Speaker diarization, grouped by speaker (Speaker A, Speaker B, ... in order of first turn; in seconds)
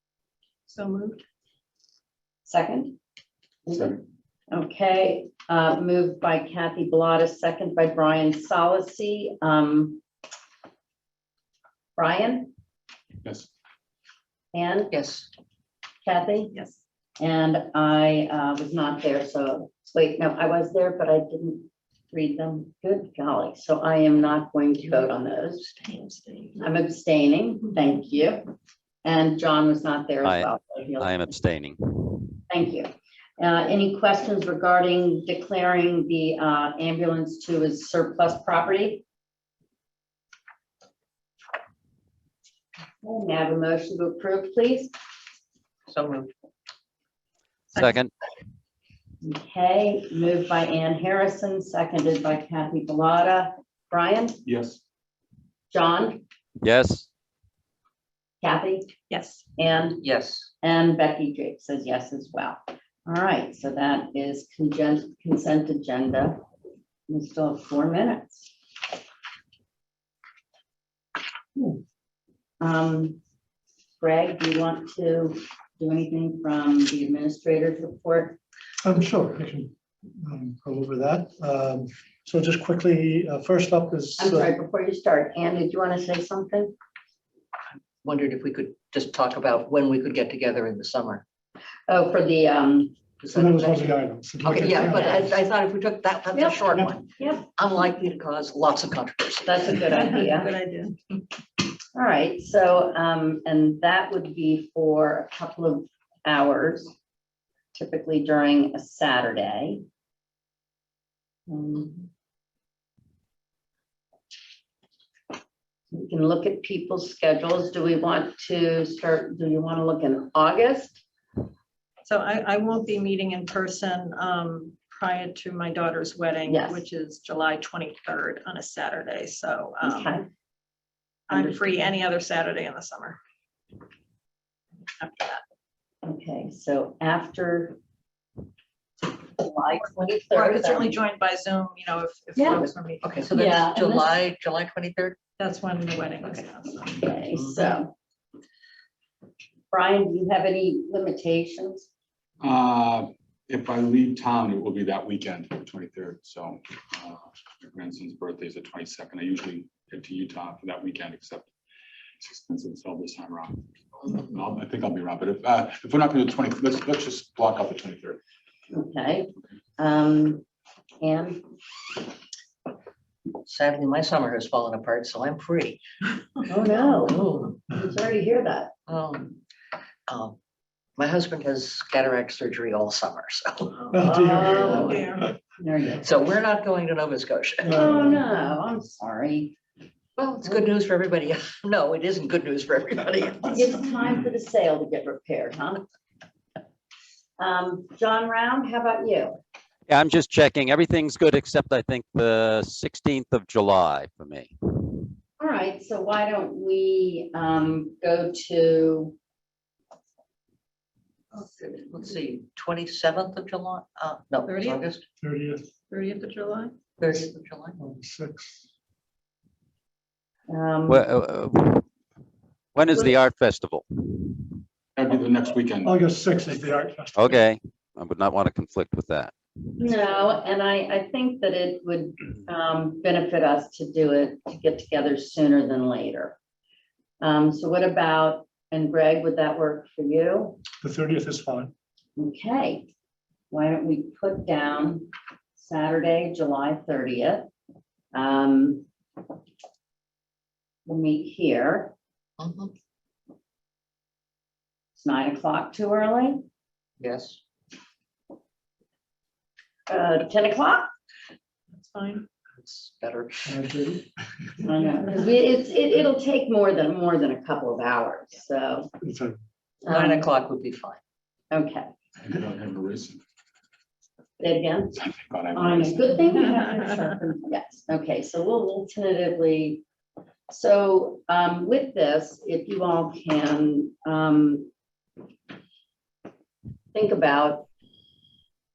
Speaker A: 0.7-1.2, 16.5-16.8, 25.8-26.6, 59.1-59.4, 99.9-101.0, 122.0-130.2, 131.3-133.2, 135.0-135.4, 140.3-143.3, 145.4-147.0, 183.8-185.3, 214.4-214.8, 215.9-216.7, 261.7-262.2
Speaker B: 2.4-3.0, 3.6-4.0, 4.5-10.0, 12.0-12.5, 14.5-14.9, 16.0-16.5, 17.2-25.6, 26.6-28.4, 29.0-31.3, 32.5-39.0, 43.0-44.9, 49.2-54.4, 55.7-56.2, 58.4-58.9, 59.6-60.0, 60.6-66.4, 67.1-68.5, 72.6-73.2, 74.0-78.4, 84.2-86.7, 91.9-93.0, 94.7-95.2, 96.3-97.4, 99.4-100.5, 101.9-106.9, 107.7-109.8, 111.5-112.0, 115.9-121.0, 126.5-126.8, 129.8-130.3, 131.3-131.9, 136.0-137.8, 139.4-140.9, 142.3-142.7, 143.3-144.2, 146.9-147.9, 149.7-151.9, 168.7-170.4, 171.0-171.4, 176.5-178.7, 184.0-185.0, 185.6-186.1, 187.7-189.5, 193.5-195.8, 197.4-199.4, 205.4-209.2, 220.5-221.0, 229.8-236.3, 237.2-240.6, 242.2-242.9, 243.5-247.5, 248.1-248.8, 250.8-251.9, 254.9-256.4, 259.9-260.9, 264.6-268.9, 269.8-270.3, 271.5-271.9, 274.4-275.0, 275.5-279.8, 280.5-284.7, 286.9-287.7
Speaker C: 14.9-15.3, 45.9-46.3, 60.0-60.5, 88.0-91.2, 93.2-93.8, 94.4-99.8, 143.0-145.2, 147.3-147.8, 173.4-175.8, 176.8-177.6, 178.9-179.4, 180.1-180.4, 181.0-183.8, 186.0-187.9, 190.2-193.7, 211.4-215.0, 217.0-217.8, 252.4-252.7, 257.0-257.4, 262.6-263.6, 269.9-271.0
Speaker D: 30.2-32.4, 47.7-48.1, 56.6-57.1, 199.9-205.1, 220.9-221.9, 222.7-224.6, 227.1-229.3
Speaker E: 54.4-54.8, 152.4-161.5, 162.2-168.2, 224.9-226.0, 272.2-273.2, 274.9-276.1
Speaker F: 78.8-84.5, 93.3-95.3, 183.9-185.3, 187.6-188.6, 215.2-215.7, 217.8-218.6, 225.8-227.4, 240.8-241.7, 263.4-264.0, 269.0-269.4